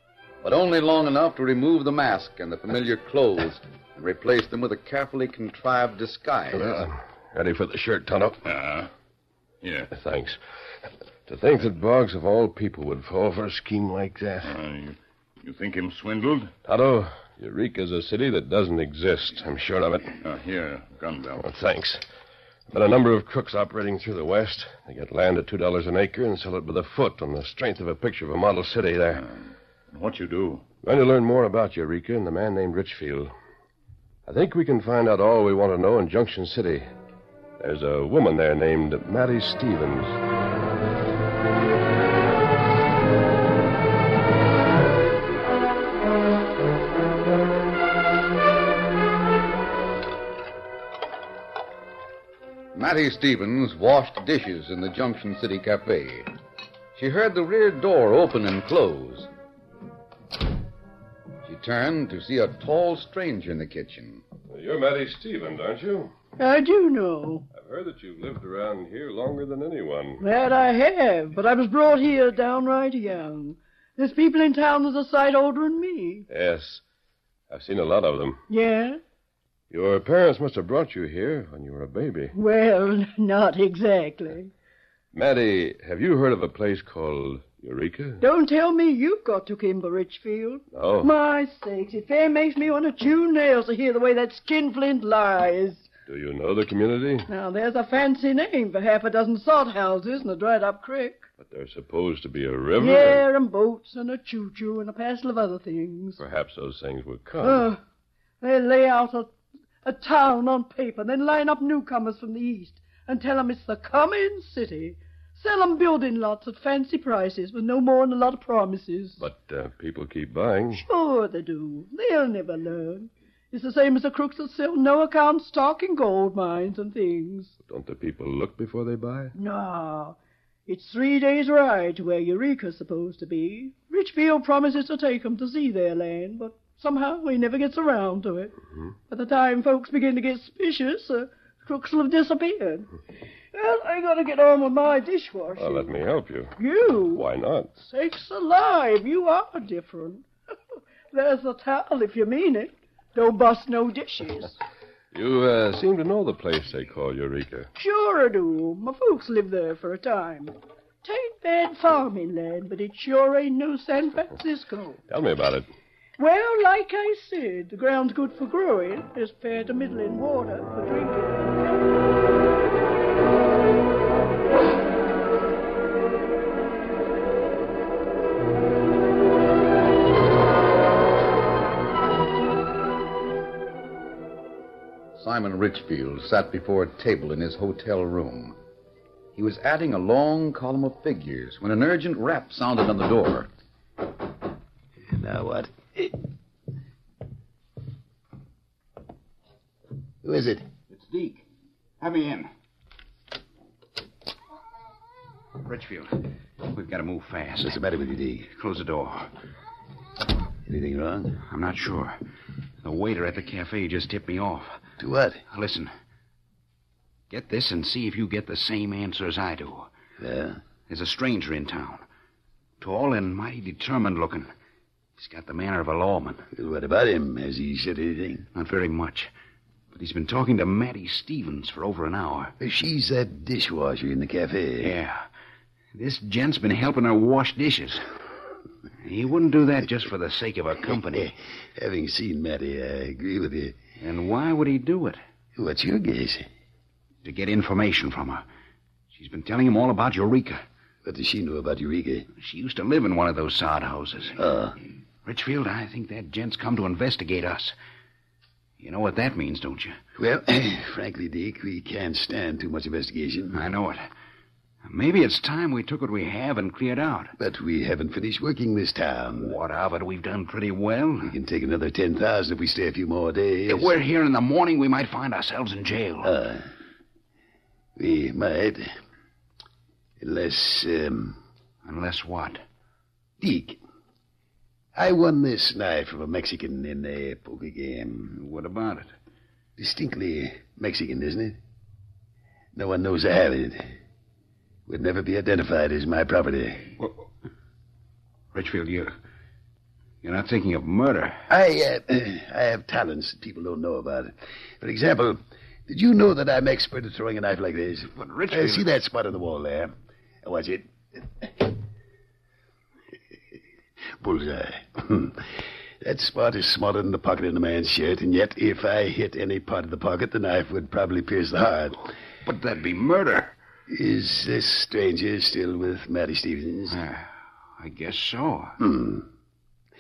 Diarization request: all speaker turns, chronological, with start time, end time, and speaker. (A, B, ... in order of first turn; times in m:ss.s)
0:00.4-0:06.8 A
0:06.5-0:08.4 B
0:08.4-0:08.9 C
0:09.6-0:09.9 C
0:09.9-0:10.4 B
0:11.3-0:14.5 B
0:14.4-0:16.5 C
0:16.6-0:20.1 B
0:20.2-0:21.4 C
0:21.4-0:22.0 B
0:22.7-0:29.3 B
0:29.9-0:30.6 C
0:30.8-0:33.3 B
0:34.3-0:36.9 B
0:37.6-0:40.2 B
0:52.8-0:56.3 A
0:56.9-0:59.3 A
1:01.4-1:04.2 A
1:04.5-1:06.1 B
1:06.4-1:07.5 D
1:07.5-1:10.2 B
1:10.2-1:16.3 D
1:16.3-1:16.8 B
1:17.5-1:18.4 B
1:18.5-1:19.0 D
1:19.7-1:22.3 B
1:22.3-1:24.5 D
1:25.1-1:28.2 B
1:28.2-1:35.9 D
1:30.7-1:31.1 B
1:36.1-1:37.3 B
1:37.3-1:41.2 D
1:41.4-1:43.2 B
1:42.8-1:46.2 D
1:46.2-1:47.7 B
1:47.4-1:47.8 D
1:48.4-1:49.3 D
1:49.8-1:59.2 D
1:59.2-2:00.8 B
2:00.7-2:07.5 D
2:07.7-2:09.3 B
2:09.4-2:18.5 D
2:19.1-2:22.9 D
2:23.5-2:25.9 D
2:25.6-2:26.5 B
2:26.6-2:27.2 D
2:27.1-2:27.7 B
2:27.8-2:30.2 D
2:31.1-2:34.6 D
2:35.1-2:37.7 B
2:37.8-2:45.0 D
2:45.1-2:45.7 B
2:46.2-2:51.8 D
3:05.2-3:08.6 A
3:09.4-3:13.5 A
3:15.1-3:16.2 E
3:20.2-3:20.7 E
3:20.9-3:21.4 F
3:22.0-3:22.5 F
3:25.6-3:27.8 F
3:27.6-3:28.5 E
3:28.5-3:29.3 F
3:30.6-3:31.4 E
3:31.4-3:32.2 F
3:32.8-3:34.8 F
3:35.0-3:35.4 E
3:35.5-3:35.9 F
3:37.3-3:39.9 F
3:40.2-3:40.6 E
3:40.9-3:42.0 F
3:42.8-3:44.5 F
3:45.2-3:46.4 F
3:46.5-3:48.5 E
3:48.5-3:49.3 F
3:49.9-3:52.5 F
3:52.6-3:54.9 E
3:54.8-3:55.2 F
3:55.9-3:58.0 F
3:59.0-4:01.3 F
4:00.9-4:03.8 E
4:04.0-4:05.2 F
4:05.6-4:06.5 E
4:07.2-4:08.4 F
4:09.1-4:10.6 F
4:11.0-4:12.3 E
4:12.4-4:14.4 F
4:14.4-4:14.8 E
4:15.2-4:17.8 F
4:18.8-4:20.0 F
4:20.2-4:23.7 E
4:23.5-4:24.0 F
4:24.8-4:27.3 F
4:27.4-4:29.6 E
4:29.4-4:31.4 F
4:31.2-4:34.0 E
4:33.7-4:36.4 F
4:36.2-4:36.7 E
4:38.0-4:38.9 E
4:40.2-4:41.4 E
4:41.8-4:42.6 F
4:43.4-4:43.8 E
4:44.9-4:48.4 E
4:48.3-4:49.1 F
4:49.8-4:51.6 E
4:52.7-4:53.9 E
4:54.9-4:57.0 E
4:58.5-4:59.1 F
5:00.2-5:01.4 F
5:01.5-5:11.7 E
5:08.2-5:08.9 F
5:14.2-5:22.1 E
5:22.4-5:23.5 F
5:23.9-5:27.0 E
5:26.9-5:28.8 F
5:28.8-5:29.3 E